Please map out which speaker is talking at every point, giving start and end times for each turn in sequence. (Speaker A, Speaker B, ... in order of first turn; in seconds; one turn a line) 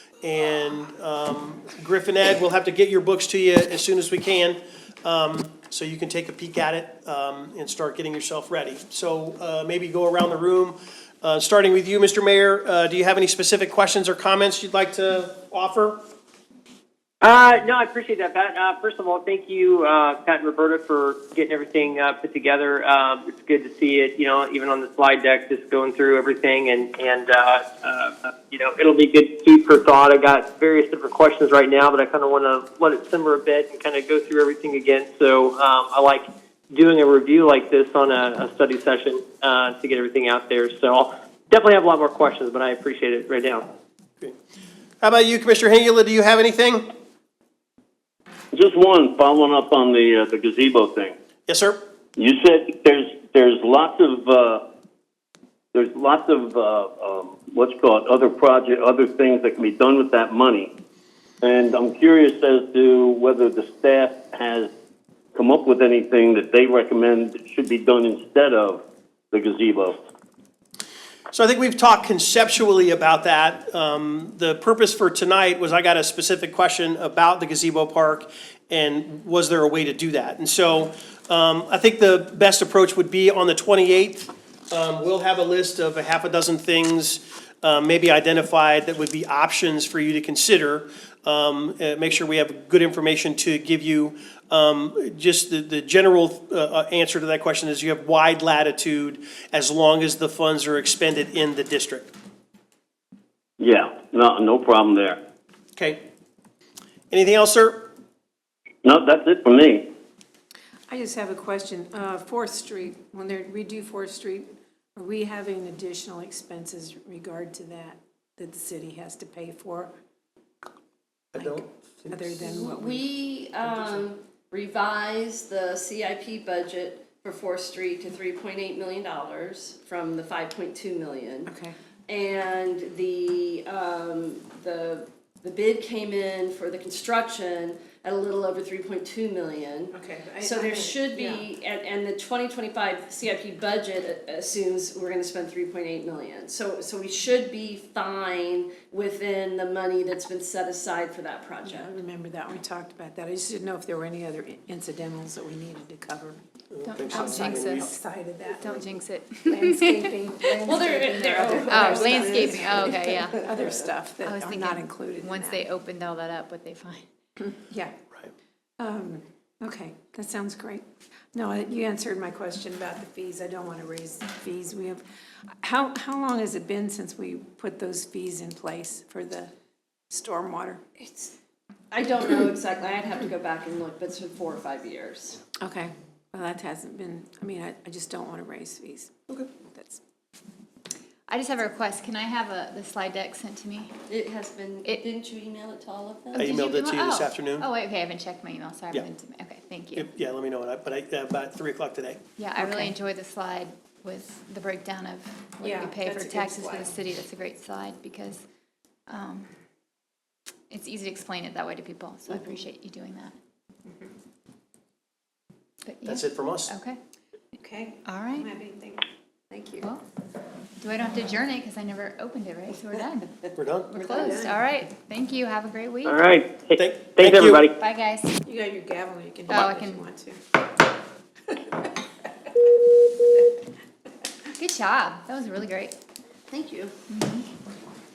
Speaker A: 0.2-16.0
Speaker B: 17.2-43.7
Speaker A: 45.0-46.9
Speaker C: 48.5-51.2
Speaker A: 51.5-51.8
Speaker C: 52.2-54.6
Speaker C: 55.7-60.7
Speaker C: 61.4-64.7
Speaker C: 65.3-68.8
Speaker C: 69.3-70.0
Speaker A: 71.3-102.1
Speaker C: 103.6-105.2
Speaker A: 107.1-107.9
Speaker C: 108.8-109.9
Speaker D: 110.9-119.9
Speaker A: 121.3-122.3
Speaker D: 121.4-123.1
Speaker E: 122.3-131.5
Speaker D: 123.7-124.0
Speaker D: 131.5-131.7
Speaker E: 132.1-151.9
Speaker D: 139.9-141.5
Speaker D: 151.6-156.4
Speaker A: 156.7-157.9
Speaker F: 156.9-157.9
Speaker D: 157.1-158.8
Speaker F: 158.6-160.6
Speaker D: 159.4-165.7
Speaker E: 160.6-163.8
Speaker F: 161.7-163.5
Speaker F: 164.2-167.1
Speaker D: 167.5-167.9
Speaker D: 168.8-175.0
Speaker D: 175.6-179.5
Speaker D: 180.1-180.8
Speaker E: 181.0-181.3
Speaker E: 181.9-185.4
Speaker D: 185.6-190.0
Speaker F: 191.3-193.9
Speaker E: 194.1-196.7
Speaker F: 196.3-200.1
Speaker A: 196.4-197.7
Speaker A: 200.0-202.2
Speaker F: 202.4-208.4
Speaker D: 205.6-206.9
Speaker F: 209.1-209.5
Speaker F: 210.7-213.3
Speaker F: 215.8-217.0
Speaker A: 216.1-216.7
Speaker D: 217.6-219.1
Speaker F: 218.1-218.5
Speaker E: 219.5-219.8
Speaker F: 220.8-226.3
Speaker A: 223.6-223.9
Speaker B: 226.1-227.8
Speaker A: 226.8-227.6
Speaker F: 227.8-228.4
Speaker D: 228.4-230.4
Speaker F: 229.5-230.1
Speaker F: 234.6-236.0
Speaker E: 236.5-236.9
Speaker F: 237.1-237.5